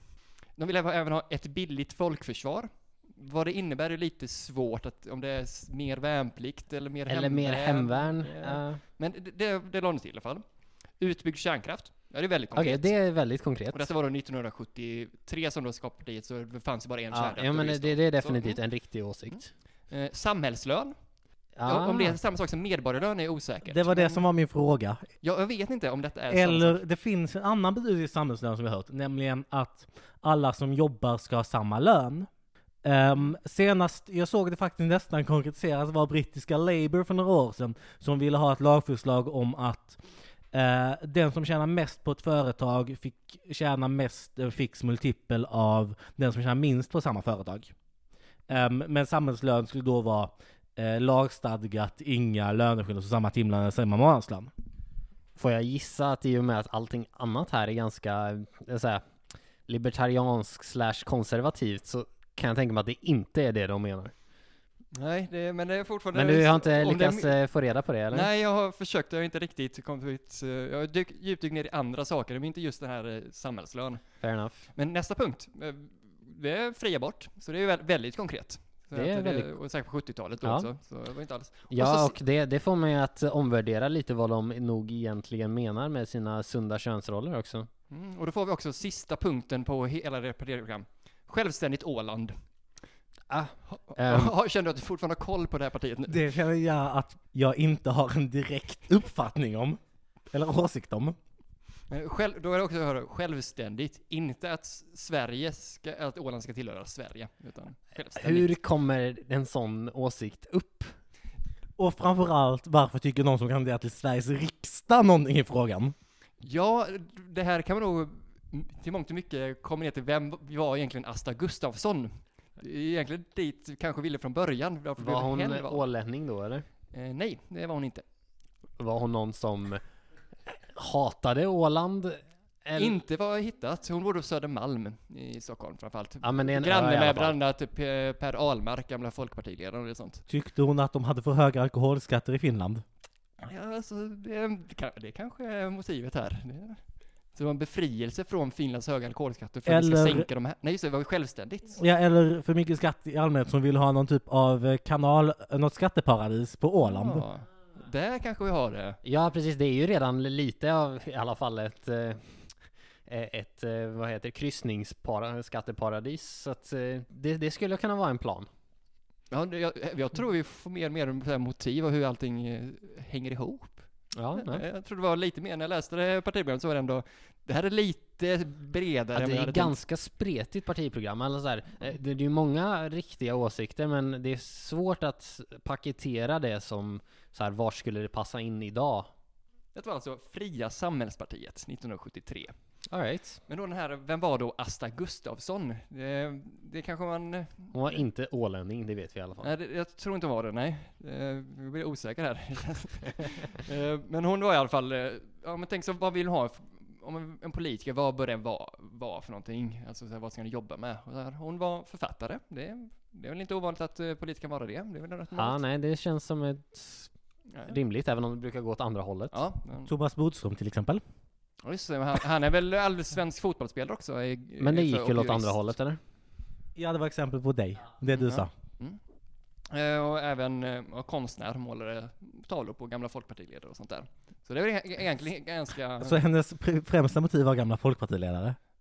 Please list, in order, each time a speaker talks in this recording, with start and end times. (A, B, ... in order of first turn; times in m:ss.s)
0:00.6-0:10.4 A
0:07.1-0:08.8 B
0:11.0-0:12.9 A
0:12.5-0:13.8 B
0:13.7-0:18.6 A
0:17.1-0:19.4 B
0:19.3-0:20.9 A
0:21.5-0:22.1 B
0:21.7-0:24.2 A
0:23.6-0:25.0 C
0:25.2-0:26.8 A
0:26.3-0:32.3 C
0:32.8-0:40.0 C
0:40.5-0:47.7 C
0:48.5-0:54.5 C
0:55.4-0:59.0 B
0:59.7-1:04.1 B
1:04.9-1:07.4 A
1:06.1-1:08.3 B
1:08.1-1:14.0 A
1:14.2-1:14.6 B
1:14.7-1:22.1 A
1:18.9-1:19.5 B
1:21.7-1:27.7 B
1:27.9-1:32.3 A
1:33.3-1:34.3 B
1:33.7-1:36.3 A
1:36.1-1:39.8 C
1:40.3-1:41.2 C
1:41.9-1:48.6 A
1:48.2-1:50.9 B
1:51.8-1:55.9 C
1:56.4-2:05.9 A
2:05.0-2:06.6 B
2:06.9-2:08.0 A
2:08.8-2:09.8 B
2:10.7-2:12.9 B
2:12.8-2:20.2 A
2:16.2-2:17.3 B
2:20.3-2:22.8 C
2:23.4-2:26.8 A
2:27.3-2:31.8 A
2:29.6-2:30.3 C
2:31.8-2:37.2 C
2:36.8-2:39.0 A
2:39.0-2:42.2 B
2:43.1-2:48.5 B
2:49.3-2:53.8 A
2:54.1-2:54.6 B
2:54.3-2:59.8 A
2:59.1-3:09.1 B
3:09.7-3:12.5 A
3:12.9-3:13.4 B
3:13.5-3:18.0 A
3:17.7-3:19.5 B
3:19.4-3:35.6 A
3:35.4-3:37.1 B
3:37.5-3:37.8 A
3:37.7-3:39.3 B
3:39.3-3:39.9 A
3:39.9-3:41.0 C
3:41.6-3:45.7 A
3:44.6-3:46.0 B
3:46.8-3:48.5 C
3:48.1-3:49.0 A
3:49.7-3:56.2 A
3:56.0-3:58.6 C